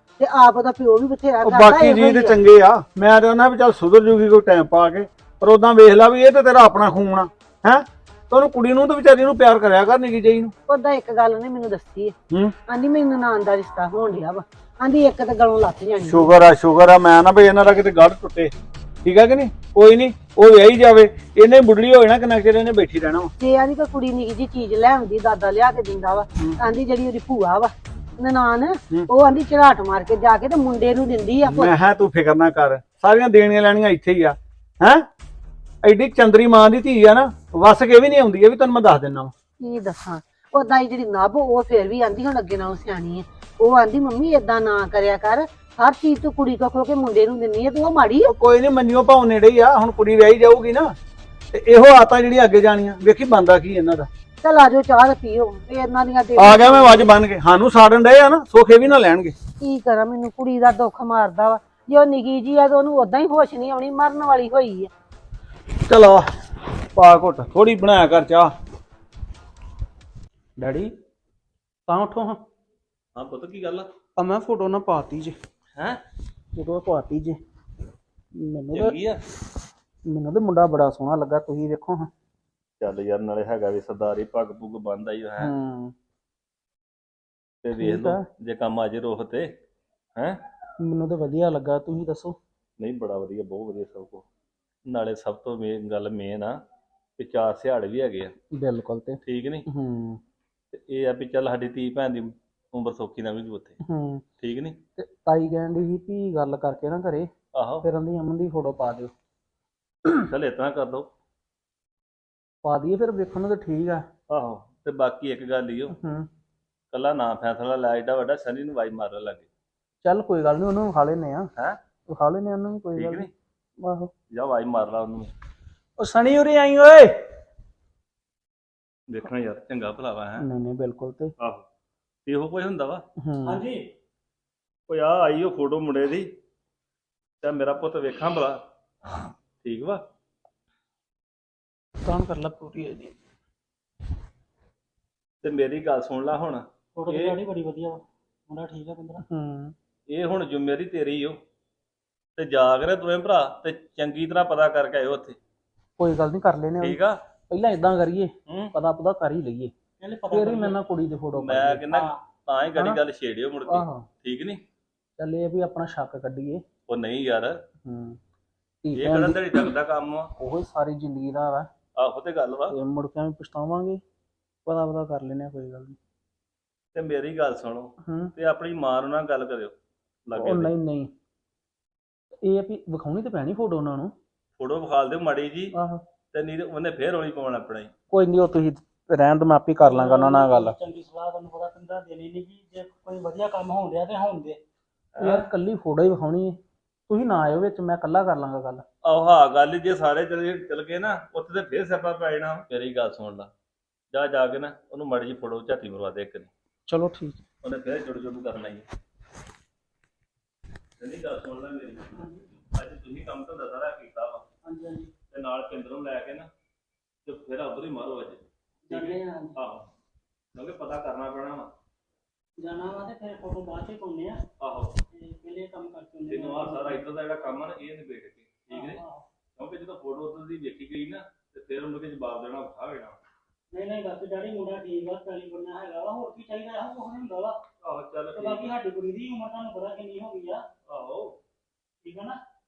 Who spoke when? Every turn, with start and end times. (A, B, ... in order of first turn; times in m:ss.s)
0:00.2-0:02.4 A
0:01.4-0:10.5 B
0:10.7-0:12.1 A
0:12.6-0:16.4 A
0:16.1-0:18.5 B
0:19.0-0:23.3 B
0:23.4-0:31.7 A
0:31.4-0:35.0 B
0:35.8-0:39.3 B
0:39.6-0:48.3 A
0:48.2-0:50.9 B
0:51.5-0:54.1 B
0:54.4-0:57.1 A
0:56.4-0:59.3 B
0:59.6-1:04.9 A
1:05.8-1:06.2 B
1:06.9-1:08.5 B
1:10.6-1:10.9 C
1:11.9-1:12.4 C
1:13.1-1:13.9 D
1:14.2-1:15.4 C
1:16.5-1:17.4 C
1:18.4-1:19.0 C
1:18.7-1:19.2 D
1:20.1-1:22.1 C
1:22.8-1:25.5 D
1:25.4-1:25.9 C
1:27.6-1:29.5 D
1:27.8-1:28.2 C
1:30.8-1:32.4 C
1:32.8-1:34.2 D
1:34.9-1:36.6 D
1:37.2-1:38.3 D
1:38.5-1:40.2 C
1:39.2-1:39.6 D
1:40.7-1:43.8 D
1:43.8-1:44.2 C
1:44.4-1:44.8 D
1:45.0-1:47.3 C
1:47.5-1:47.9 D
1:47.8-1:49.1 C
1:50.1-1:51.1 D
1:52.6-1:54.1 C
1:54.3-1:55.9 D
1:55.9-1:56.3 C
1:56.9-1:59.5 D
2:00.0-2:01.5 C
2:02.1-2:03.3 C
2:02.9-2:03.3 D
2:03.8-2:04.1 C
2:04.3-2:05.3 D
2:06.0-2:07.2 C
2:09.1-2:10.4 D
2:10.4-2:11.3 C
2:12.2-2:13.0 D
2:13.2-2:13.6 C
2:13.4-2:13.8 E
2:14.9-2:16.3 D
2:17.4-2:18.6 D
2:19.1-2:20.0 D
2:22.0-2:23.2 C
2:25.4-2:27.4 D
2:26.9-2:29.2 E
2:29.2-2:29.7 C
2:30.1-2:31.4 D
2:32.4-2:35.4 D
2:36.0-2:37.0 C
2:36.8-2:37.2 D
2:37.5-2:39.7 C
2:38.5-2:38.7 D
2:40.0-2:40.8 E
2:40.3-2:41.9 C
2:41.3-2:44.6 D
2:41.9-2:42.2 E
2:42.7-2:43.0 C
2:43.6-2:44.1 C
2:45.2-2:46.6 C
2:46.9-2:47.6 D
2:47.8-2:48.2 C
2:48.8-2:49.7 C
2:48.9-2:50.3 D
2:50.4-2:51.7 C
2:52.0-2:52.7 D
2:52.7-2:54.0 C
2:54.6-2:56.0 C
2:56.9-2:59.7 D
2:58.0-2:58.3 C
3:00.2-3:00.7 D
3:00.3-3:01.1 C
3:02.4-3:04.1 C
3:04.6-3:05.7 D
3:05.7-3:06.0 C
3:06.3-3:07.9 D
3:08.1-3:10.8 C
3:09.8-3:14.6 E
3:15.1-3:15.5 D
3:15.2-3:18.8 C
3:19.0-3:23.5 D
3:24.1-3:26.5 D
3:26.9-3:27.4 C
3:27.6-3:28.9 D
3:31.0-3:34.4 D
3:32.1-3:32.4 E
3:34.6-3:35.1 E
3:35.3-3:36.5 D
3:37.2-3:39.9 D
3:38.9-3:39.5 E
3:40.5-3:41.7 D
3:42.6-3:44.4 E
3:44.6-3:44.9 D
3:45.1-3:47.0 E
3:46.3-3:49.0 D
3:48.7-3:49.2 E
3:49.5-3:53.2 D
3:53.7-3:57.6 E
3:57.8-3:58.7 D
3:58.3-4:00.6 E
4:00.8-4:01.4 D
4:02.0-4:02.4 E